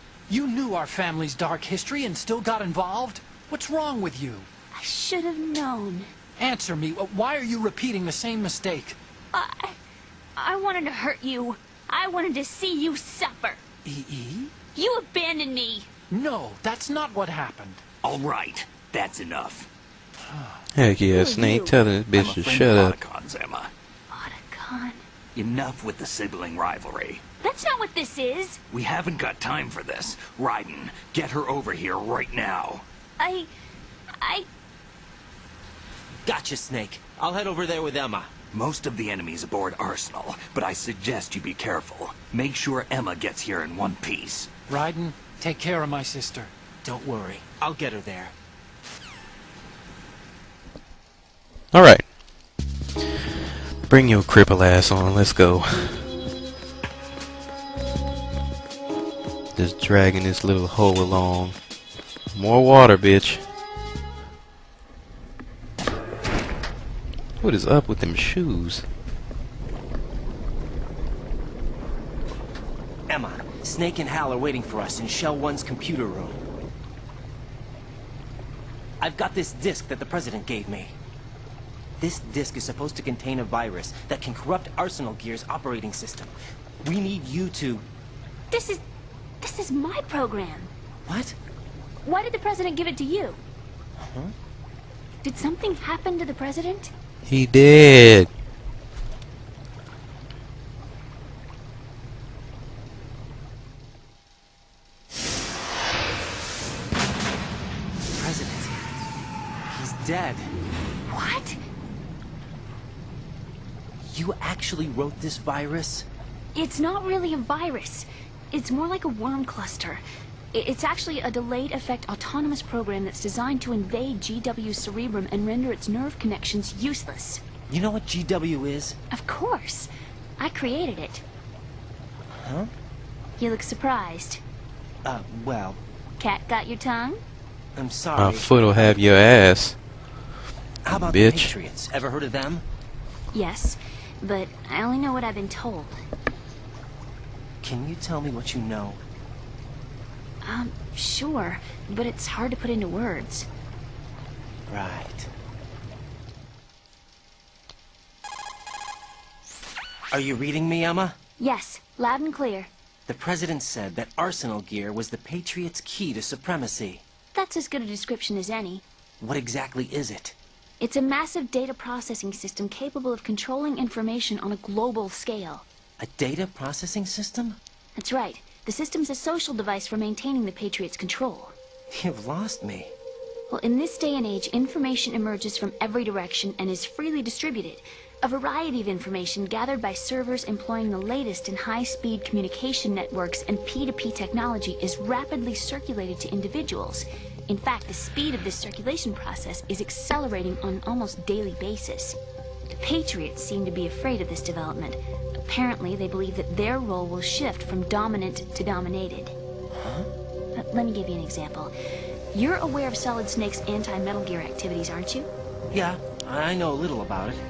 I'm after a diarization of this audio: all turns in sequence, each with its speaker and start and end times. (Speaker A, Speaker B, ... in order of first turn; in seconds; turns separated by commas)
Speaker A: 0.3-4.5, Speaker B: 4.7-6.1, Speaker A: 6.4-9.0, Speaker B: 9.3-9.8, Speaker B: 10.3-13.6, Speaker A: 13.8-14.5, Speaker B: 14.7-15.9, Speaker A: 16.1-17.8, Speaker C: 18.0-19.7, Speaker A: 20.3-20.6, Speaker D: 20.7-23.0, Speaker B: 21.1-21.8, Speaker C: 22.1-23.7, Speaker B: 24.1-25.0, Speaker C: 25.3-27.2, Speaker B: 27.4-28.6, Speaker C: 28.7-32.8, Speaker B: 33.2-33.5, Speaker B: 34.2-34.5, Speaker E: 36.2-38.3, Speaker C: 38.5-44.5, Speaker A: 44.7-46.5, Speaker E: 46.8-48.3, Speaker D: 51.7-52.1, Speaker D: 53.9-56.1, Speaker D: 59.5-61.5, Speaker D: 62.3-63.4, Speaker D: 67.4-68.8, Speaker E: 73.1-76.4, Speaker E: 79.0-81.0, Speaker E: 82.0-87.8, Speaker B: 88.5-88.8, Speaker B: 89.4-90.7, Speaker E: 91.0-91.4, Speaker B: 92.0-93.4, Speaker E: 94.0-94.3, Speaker B: 95.2-96.9, Speaker D: 97.2-98.3, Speaker E: 108.1-108.8, Speaker E: 109.7-110.5, Speaker B: 111.1-111.6, Speaker E: 114.0-116.1, Speaker B: 116.5-127.4, Speaker E: 127.7-129.0, Speaker B: 129.1-131.2, Speaker E: 132.3-132.7, Speaker B: 133.4-134.4, Speaker E: 135.0-135.8, Speaker B: 136.2-137.2, Speaker E: 137.7-139.0, Speaker D: 138.2-139.8, Speaker E: 140.8-142.6, Speaker D: 140.9-141.5, Speaker B: 143.3-146.0, Speaker E: 147.6-149.0, Speaker B: 150.4-153.5, Speaker E: 154.7-155.3, Speaker E: 160.1-161.2, Speaker B: 161.4-162.7, Speaker E: 163.1-167.0, Speaker B: 167.3-168.8, Speaker E: 169.2-170.3, Speaker B: 170.8-175.7, Speaker E: 176.0-177.6, Speaker B: 177.9-181.5, Speaker E: 181.9-182.9, Speaker B: 183.5-202.2, Speaker B: 202.7-209.3, Speaker E: 209.7-210.1, Speaker B: 210.5-211.7, Speaker B: 212.3-215.3, Speaker E: 215.7-217.4